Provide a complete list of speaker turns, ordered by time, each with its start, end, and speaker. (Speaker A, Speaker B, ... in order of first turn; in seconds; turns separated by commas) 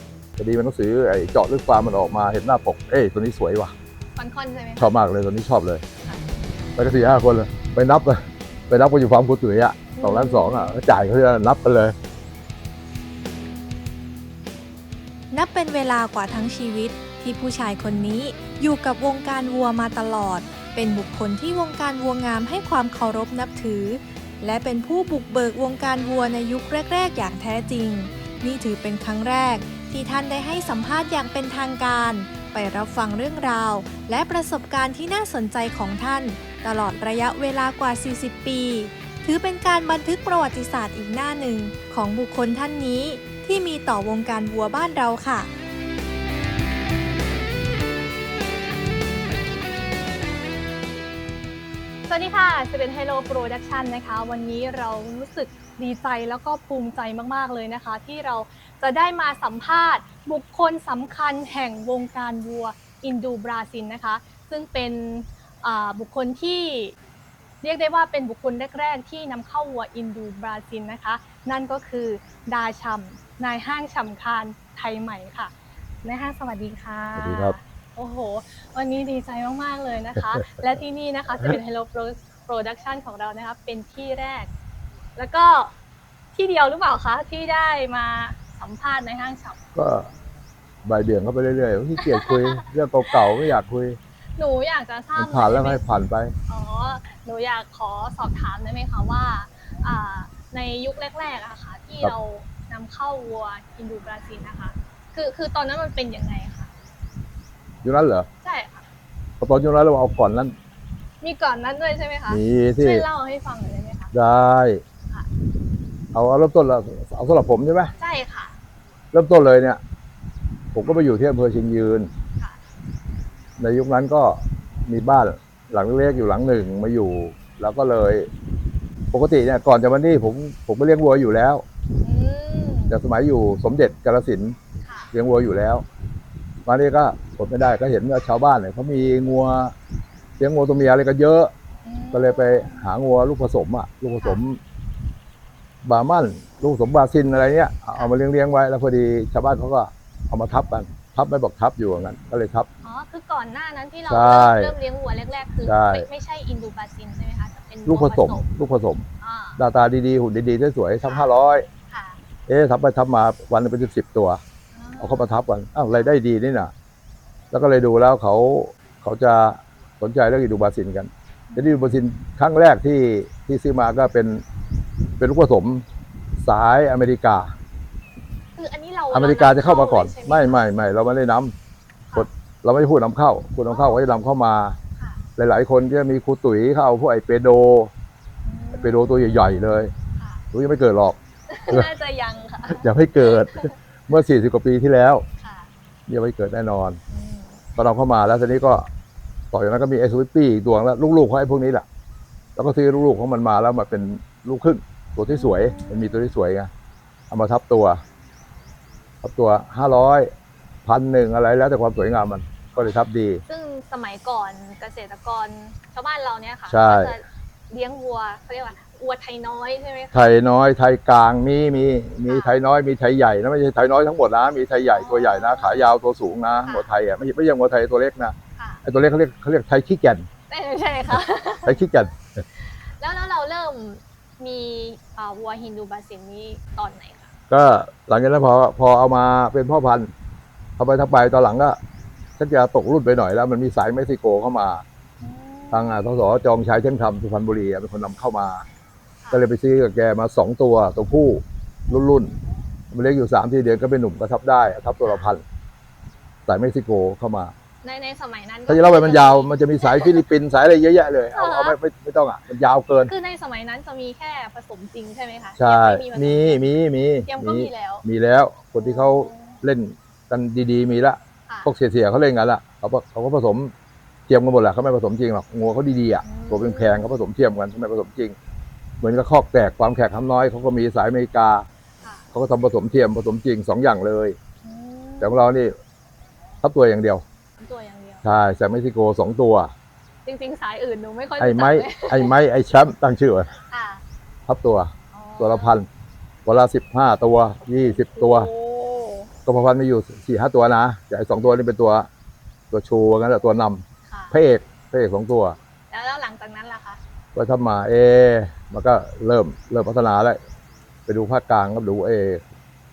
Speaker A: 0.4-3.7, Speaker B: 4.2-4.9, Speaker A: 4.8-5.8, Speaker A: 6.8-11.9, Speaker B: 9.9-10.8, Speaker C: 15.3-45.5, Speaker B: 52.1-66.9, Speaker B: 67.6-75.5, Speaker B: 76.0-84.5, Speaker A: 77.2-77.6, Speaker B: 85.2-85.7, Speaker B: 86.3-89.6, Speaker A: 89.7-90.1, Speaker A: 90.8-94.0, Speaker B: 92.0-93.2, Speaker B: 94.4-95.8, Speaker A: 95.2-96.3, Speaker B: 96.5-106.7, Speaker A: 107.8-108.3, Speaker B: 108.4-108.8, Speaker A: 109.4-110.5, Speaker B: 111.2-114.1, Speaker A: 112.3-113.0, Speaker A: 114.1-114.8, Speaker A: 116.1-117.9, Speaker B: 118.0-118.6, Speaker A: 119.1-119.8, Speaker A: 120.7-122.1, Speaker A: 123.6-128.3, Speaker A: 129.1-131.6, Speaker B: 132.0-132.9, Speaker A: 132.9-134.6, Speaker B: 134.8-135.1, Speaker A: 135.1-135.8, Speaker A: 136.7-139.7, Speaker A: 140.4-141.5, Speaker B: 141.8-142.9, Speaker A: 142.1-144.6, Speaker A: 145.8-152.7, Speaker B: 152.8-158.5, Speaker A: 154.1-154.7, Speaker A: 155.6-156.1, Speaker A: 157.8-159.1, Speaker B: 159.2-159.6, Speaker A: 159.6-161.7, Speaker B: 161.0-161.3, Speaker B: 161.9-162.2, Speaker A: 162.5-164.4, Speaker B: 164.7-165.3, Speaker A: 165.0-166.7, Speaker A: 167.5-174.4, Speaker B: 171.5-171.9, Speaker A: 175.2-175.8, Speaker A: 176.4-177.5, Speaker B: 178.6-180.6, Speaker A: 179.1-181.5, Speaker A: 182.1-184.8, Speaker B: 183.7-184.0, Speaker B: 185.0-185.2, Speaker A: 185.4-187.9, Speaker B: 188.4-190.4, Speaker A: 188.7-189.9, Speaker A: 190.5-191.2, Speaker B: 191.5-193.7, Speaker A: 192.7-195.2, Speaker B: 195.4-195.7, Speaker A: 196.1-197.0, Speaker B: 197.1-197.6, Speaker A: 197.8-198.9, Speaker A: 199.5-201.8, Speaker A: 202.6-206.7, Speaker B: 205.3-206.2, Speaker A: 207.3-208.0, Speaker A: 209.2-210.3, Speaker A: 210.8-213.4, Speaker B: 213.5-220.3, Speaker A: 216.7-217.2, Speaker A: 220.1-230.3, Speaker B: 222.3-222.5, Speaker B: 224.9-225.9, Speaker B: 226.6-226.9, Speaker B: 228.6-228.8, Speaker B: 230.5-231.8, Speaker A: 231.6-232.2, Speaker B: 232.6-237.3, Speaker A: 237.5-240.1, Speaker A: 240.8-241.8, Speaker A: 242.4-244.8, Speaker B: 245.2-246.0, Speaker A: 245.7-248.6, Speaker A: 249.3-252.3, Speaker A: 252.9-255.4, Speaker B: 255.0-255.3, Speaker A: 256.5-257.5, Speaker B: 257.8-260.2, Speaker A: 258.7-263.1, Speaker B: 261.3-261.8, Speaker B: 263.0-266.6, Speaker A: 265.6-273.7, Speaker B: 267.2-268.0, Speaker B: 268.8-269.6, Speaker B: 271.5-271.7, Speaker A: 274.3-278.4, Speaker B: 276.2-277.1, Speaker A: 279.0-281.6, Speaker B: 282.0-282.3, Speaker A: 282.3-284.4, Speaker B: 284.6-285.4, Speaker A: 285.2-285.7, Speaker A: 286.6-287.2, Speaker B: 287.6-288.2, Speaker A: 288.2-289.7, Speaker B: 290.2-292.3, Speaker A: 291.4-293.5, Speaker B: 293.7-294.0, Speaker A: 294.5-295.9, Speaker B: 295.1-295.8, Speaker A: 296.4-298.5, Speaker B: 297.8-299.3, Speaker A: 299.4-302.1, Speaker A: 302.7-305.6, Speaker B: 304.1-304.4, Speaker B: 305.9-307.0, Speaker A: 307.3-310.4, Speaker A: 311.1-312.4